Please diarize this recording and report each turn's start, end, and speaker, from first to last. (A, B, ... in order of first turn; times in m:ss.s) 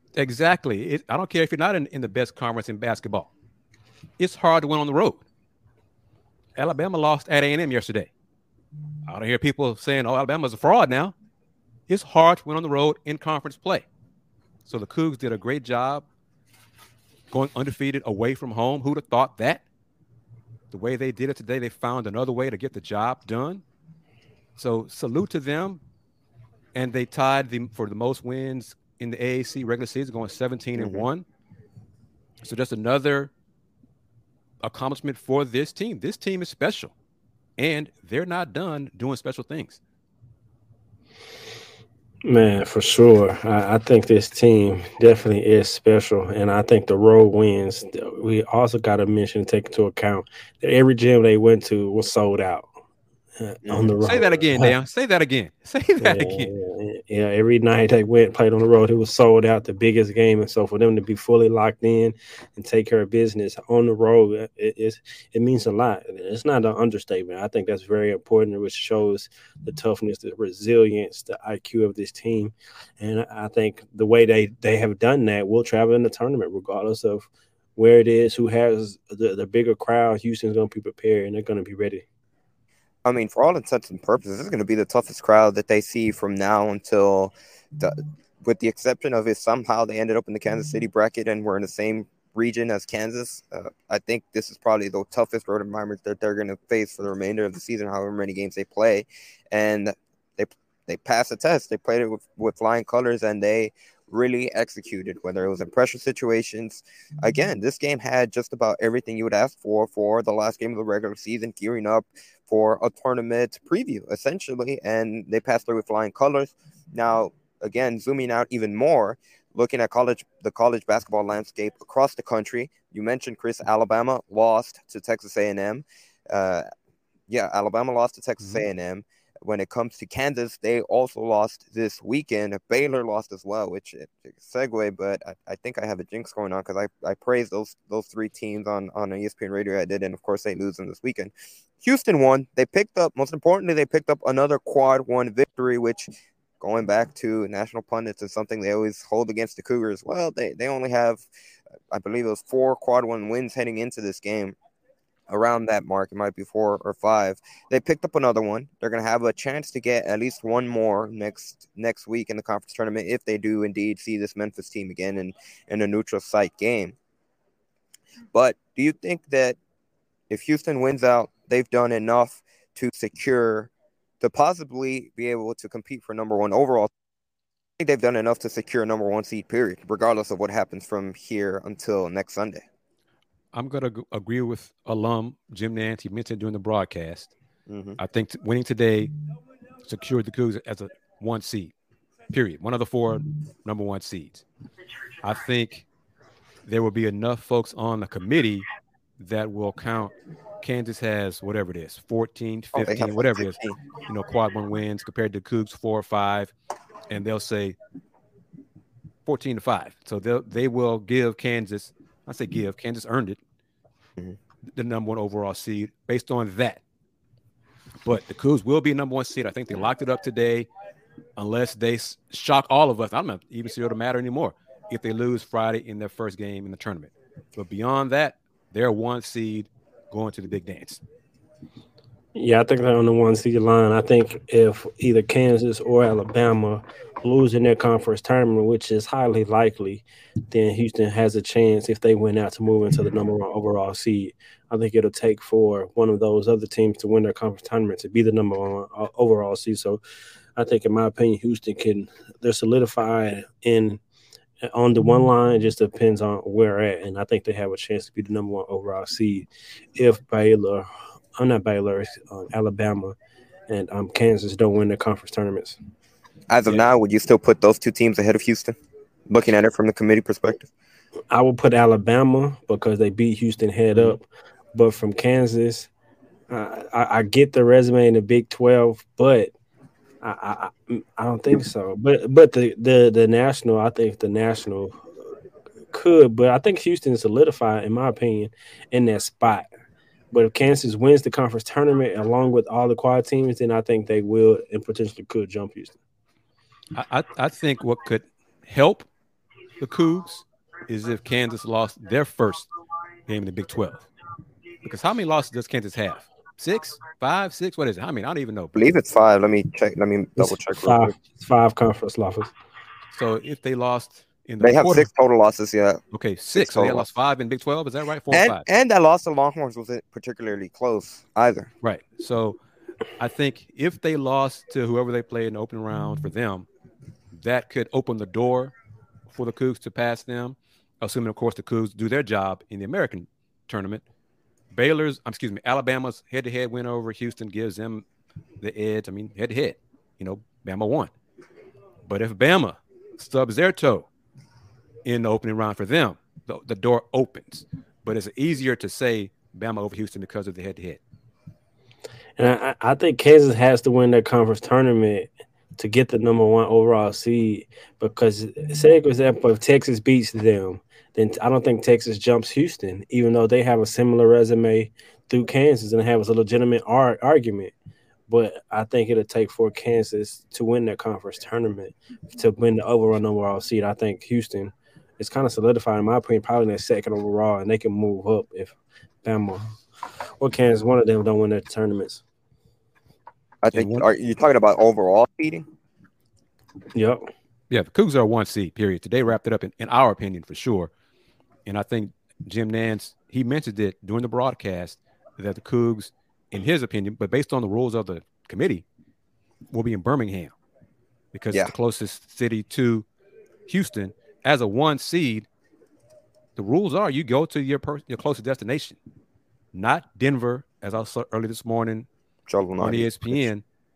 0:00.2-0:03.3 A
0:04.2-0:05.2 A
0:06.6-0:08.1 A
0:09.1-0:11.2 A
0:11.9-0:13.9 A
0:14.6-0:16.1 A
0:17.3-0:19.6 A
0:20.7-0:23.6 A
0:24.6-0:25.8 A
0:26.7-0:31.2 A
0:30.8-0:31.1 B
0:32.4-0:33.3 A
0:34.6-0:36.9 A
0:37.6-0:39.8 A
0:42.2-0:52.7 C
0:53.4-0:54.7 C
0:54.0-0:56.5 A
0:56.0-1:22.0 C
1:23.0-2:06.7 B
2:07.3-2:31.3 B
2:08.4-2:08.6 A
2:31.9-2:34.6 B
2:35.3-2:47.0 B
2:48.3-2:49.6 B
2:50.3-2:56.9 B
2:57.8-3:02.6 B
3:03.5-3:07.3 A
3:07.7-3:08.0 B
3:08.0-3:09.1 A
3:09.8-3:11.7 A
3:12.3-3:14.4 A
3:15.2-3:15.9 A
3:16.7-3:18.7 A
3:19.2-3:26.5 A
3:22.7-3:23.8 B
3:27.1-3:27.8 A
3:29.2-3:33.4 A
3:34.7-3:36.8 A
3:38.0-3:40.7 A
3:41.4-3:51.0 A
3:52.4-4:10.0 C
4:10.6-4:14.0 C
4:14.6-4:23.2 C
4:23.7-4:25.8 C
4:26.5-4:28.8 B
4:29.3-4:30.7 B
4:31.3-4:35.9 C
4:36.5-4:39.5 C
4:40.2-4:45.0 C
4:45.9-4:49.7 C
4:50.3-4:56.0 C
4:56.9-4:59.1 A
4:59.8-5:02.7 A
5:03.3-5:04.1 A
5:04.8-5:08.8 A
5:08.8-5:11.1 B
5:10.4-5:12.5 C
5:13.1-5:15.1 A
5:14.6-5:16.0 B
5:16.1-5:18.6 A
5:16.5-5:17.1 B
5:18.3-5:21.7 B
5:21.8-5:22.6 A
5:23.2-5:26.7 A
5:27.3-5:28.7 A
5:29.3-5:34.0 A
5:34.7-5:38.1 A
5:38.6-5:41.1 A
5:42.1-5:44.1 A
5:45.1-5:51.0 A
5:52.4-6:07.7 C
6:08.3-6:19.6 C
6:20.4-6:22.2 C
6:23.6-6:25.7 B
6:23.7-6:24.1 A
6:27.0-6:27.3 C
6:27.7-6:30.9 A
6:31.7-6:38.8 A
6:39.7-6:40.5 A
6:41.3-6:43.1 A
6:43.7-6:45.5 A
6:46.6-6:49.0 A
6:49.7-6:52.1 A
6:52.5-6:53.4 B
6:52.8-6:53.6 A